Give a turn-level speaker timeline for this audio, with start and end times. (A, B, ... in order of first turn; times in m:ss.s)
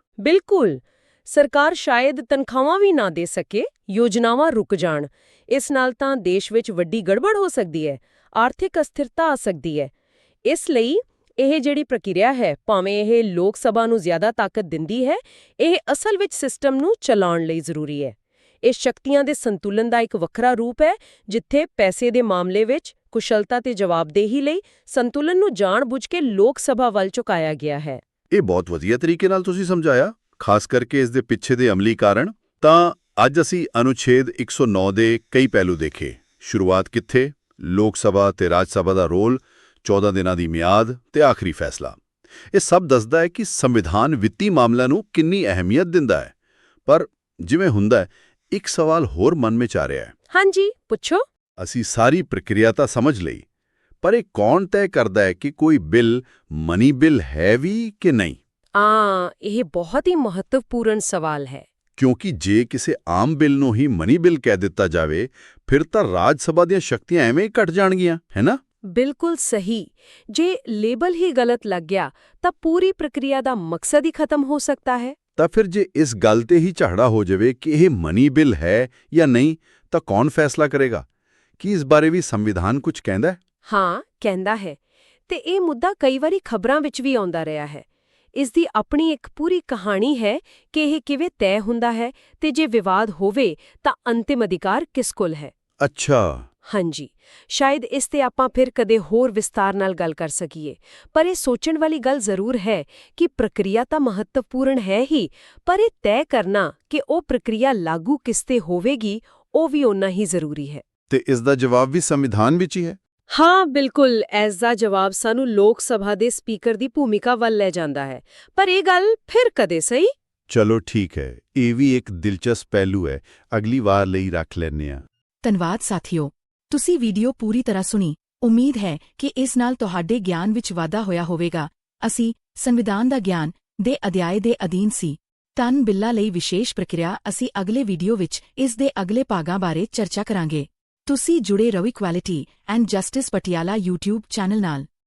0:00.2-0:09.9 A
0:10.4-0:28.0 A
0:28.3-0:42.0 B
0:42.5-0:46.3 B
0:46.9-0:50.1 B
0:50.3-0:51.2 A
0:51.6-0:53.4 B
0:54.0-0:58.4 B
0:58.8-1:01.6 A
1:02.0-1:08.6 B
1:08.9-1:15.1 A
1:15.4-1:21.0 B
1:21.6-1:23.4 B
1:23.6-1:35.5 A
1:35.8-1:36.4 B
1:36.6-1:50.8 A
1:51.1-1:53.0 B
1:53.3-2:00.1 A
2:00.5-2:05.0 B
2:05.4-2:24.9 C